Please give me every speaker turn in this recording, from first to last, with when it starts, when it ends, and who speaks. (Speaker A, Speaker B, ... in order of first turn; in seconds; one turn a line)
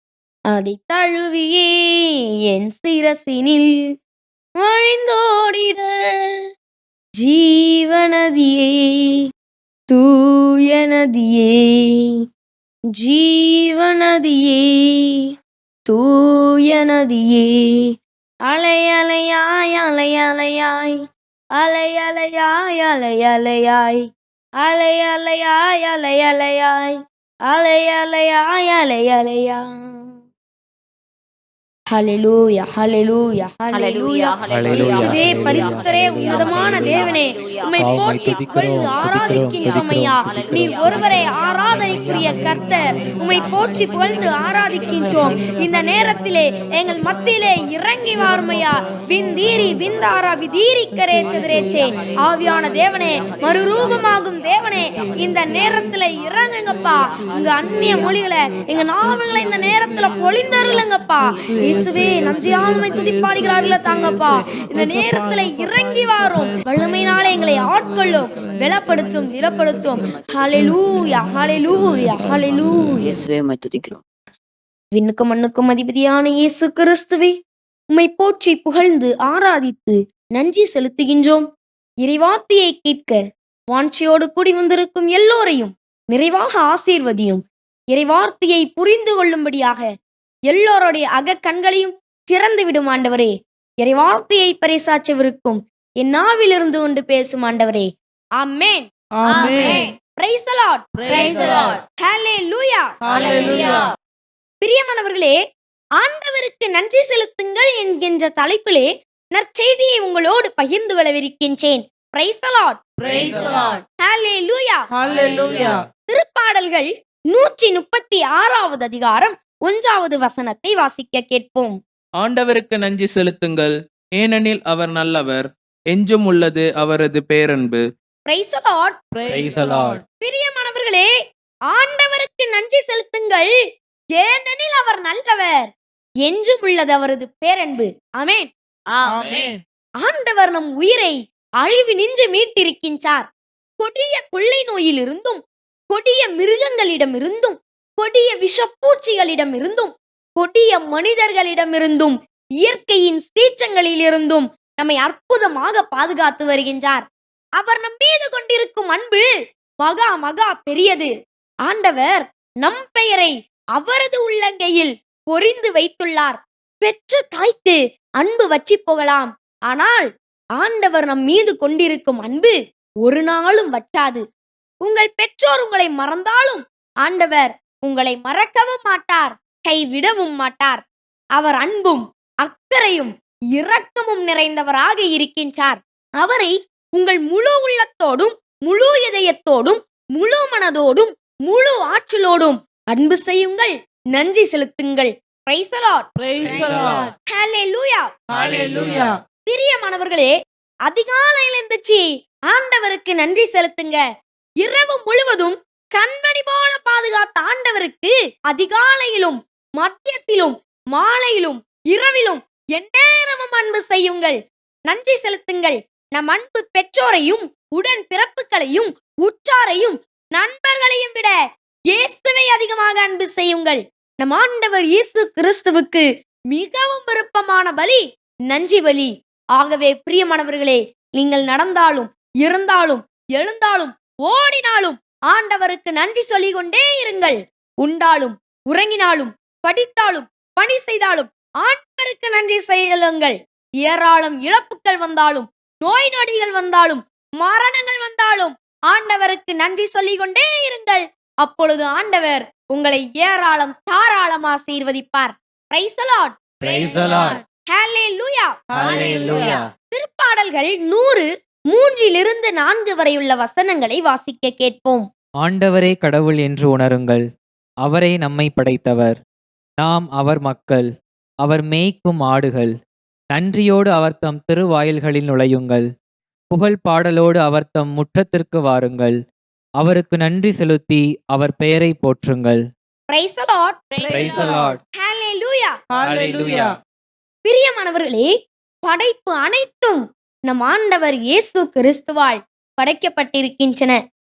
Speaker A: 0.5-3.8
Speaker A: 4.6-6.4
Speaker A: 7.2-9.2
Speaker A: 9.9-12.1
Speaker A: 13.0-15.2
Speaker A: 15.9-17.9
Speaker A: 18.5-21.0
Speaker A: 21.6-24.1
Speaker A: 24.6-27.0
Speaker A: 27.5-30.1
Speaker A: 31.9-72.9
Speaker B: 33.7-37.2
Speaker C: 34.5-37.0
Speaker C: 37.8-41.3
Speaker B: 73.0-74.0
Speaker A: 74.9-77.3
Speaker A: 77.9-81.4
Speaker A: 82.0-89.8
Speaker A: 90.5-93.3
Speaker A: 93.8-97.9
Speaker A: 98.4-98.8
Speaker D: 99.2-99.9
Speaker A: 99.6-103.8
Speaker D: 101.0-101.8
Speaker D: 103.0-103.8
Speaker A: 104.6-105.3
Speaker A: 106.0-112.8
Speaker D: 113.0-113.8
Speaker A: 114.0-114.8
Speaker D: 115.0-115.8
Speaker A: 116.1-121.7
Speaker E: 122.2-127.8
Speaker A: 128.3-129.0
Speaker D: 129.2-130.0
Speaker C: 129.3-130.0
Speaker A: 130.2-131.1
Speaker A: 131.7-133.5
Speaker A: 134.2-135.7
Speaker A: 136.2-138.5
Speaker B: 138.9-139.5
Speaker D: 139.1-139.6
Speaker A: 140.0-143.3
Speaker A: 143.8-157.1
Speaker A: 157.6-159.2
Speaker A: 159.8-161.1
Speaker A: 161.7-170.1
Speaker A: 170.6-174.2
Speaker A: 174.8-180.8
Speaker A: 181.4-196.1
Speaker D: 196.2-197.1
Speaker C: 196.4-197.1
Speaker A: 197.3-198.1
Speaker D: 198.3-199.2
Speaker C: 198.3-199.1
Speaker A: 199.5-200.3
Speaker A: 200.9-204.0
Speaker A: 204.6-214.4
Speaker A: 214.9-221.3
Speaker A: 221.9-243.3
Speaker A: 243.8-256.4
Speaker C: 256.6-257.4
Speaker A: 257.7-258.5
Speaker C: 258.7-259.7
Speaker D: 258.7-259.6
Speaker A: 259.1-265.1
Speaker C: 265.4-267.2
Speaker C: 267.8-269.2
Speaker C: 269.8-270.9
Speaker C: 271.4-272.8
Speaker C: 273.3-275.9
Speaker C: 276.5-279.2
Speaker C: 279.8-282.7
Speaker A: 283.1-285.7
Speaker B: 283.9-284.6
Speaker C: 284.1-284.8
Speaker D: 285.9-286.7
Speaker C: 286.0-286.7
Speaker A: 287.4-288.3
Speaker A: 288.8-294.0